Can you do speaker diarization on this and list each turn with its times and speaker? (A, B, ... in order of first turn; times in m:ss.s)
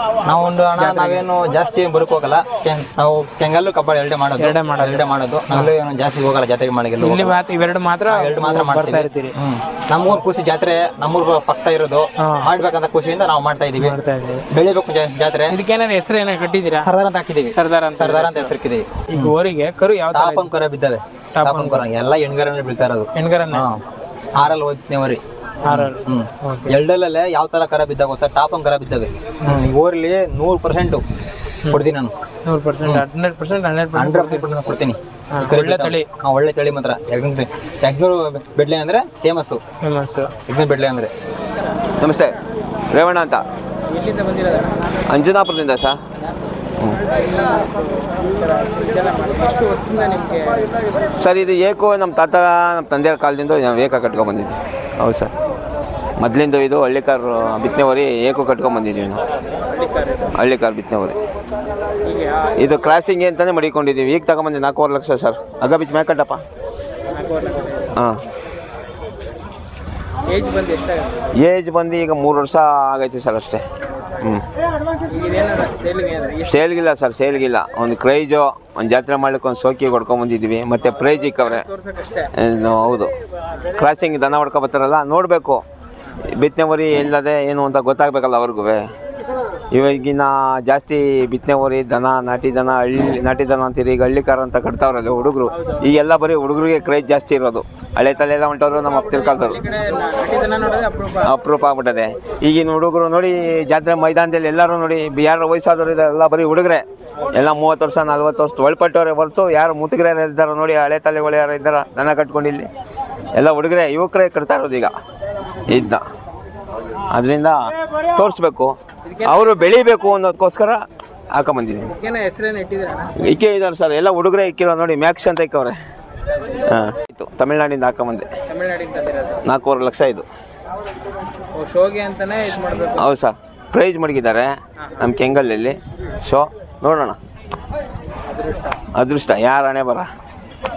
0:00.2-0:07.3 A
0:00.8-0:01.2 B
0:04.4-0:05.7 B
0:07.0-0:09.4 B
0:08.1-0:14.0 A
0:12.2-0:12.5 B
0:13.8-0:14.4 B
0:14.5-0:15.6 A
0:15.5-0:16.9 B
0:16.8-0:19.3 A
0:17.4-0:18.5 B
0:19.1-0:20.5 B
0:20.1-0:31.0 A
0:21.4-0:21.8 B
0:23.1-0:23.7 B
0:25.6-0:26.7 B
0:31.7-0:32.1 A
0:32.4-0:34.5 B
0:33.9-0:39.6 A
0:35.3-0:36.1 B
0:39.8-0:40.3 B
0:40.5-0:41.1 A
0:42.0-0:42.3 C
0:42.9-0:43.4 C
0:43.9-0:44.9 B
0:45.1-0:46.0 C
0:47.1-0:50.7 B
0:51.2-0:55.3 C
0:56.2-0:59.2 C
0:59.7-1:00.3 B
1:00.3-1:01.2 C
1:02.0-1:02.6 B
1:02.6-1:06.4 C
1:07.1-1:08.0 B
1:10.2-1:11.2 B
1:11.4-1:13.6 C
1:14.2-1:14.4 C
1:15.1-1:16.6 B
1:16.4-1:21.6 C
1:21.4-1:22.3 B
1:22.3-1:23.1 C
1:23.7-1:25.6 C
1:26.3-1:28.9 C
1:29.7-1:39.6 C
1:35.5-1:35.9 B
1:39.1-1:41.3 B
1:41.2-1:52.7 C
1:53.4-1:54.9 C
1:55.7-1:56.0 C
1:57.1-1:57.6 C
1:58.1-1:58.7 C
1:59.0-1:59.7 B
1:59.2-2:00.8 C
2:01.3-2:01.9 C
2:01.8-2:03.1 B
2:03.2-2:05.8 C
2:06.7-2:08.3 C
2:08.5-2:09.4 B
2:09.4-2:10.2 C
2:11.5-2:13.1 B
2:13.0-2:17.2 C
2:18.3-2:18.8 B
2:18.9-2:20.1 C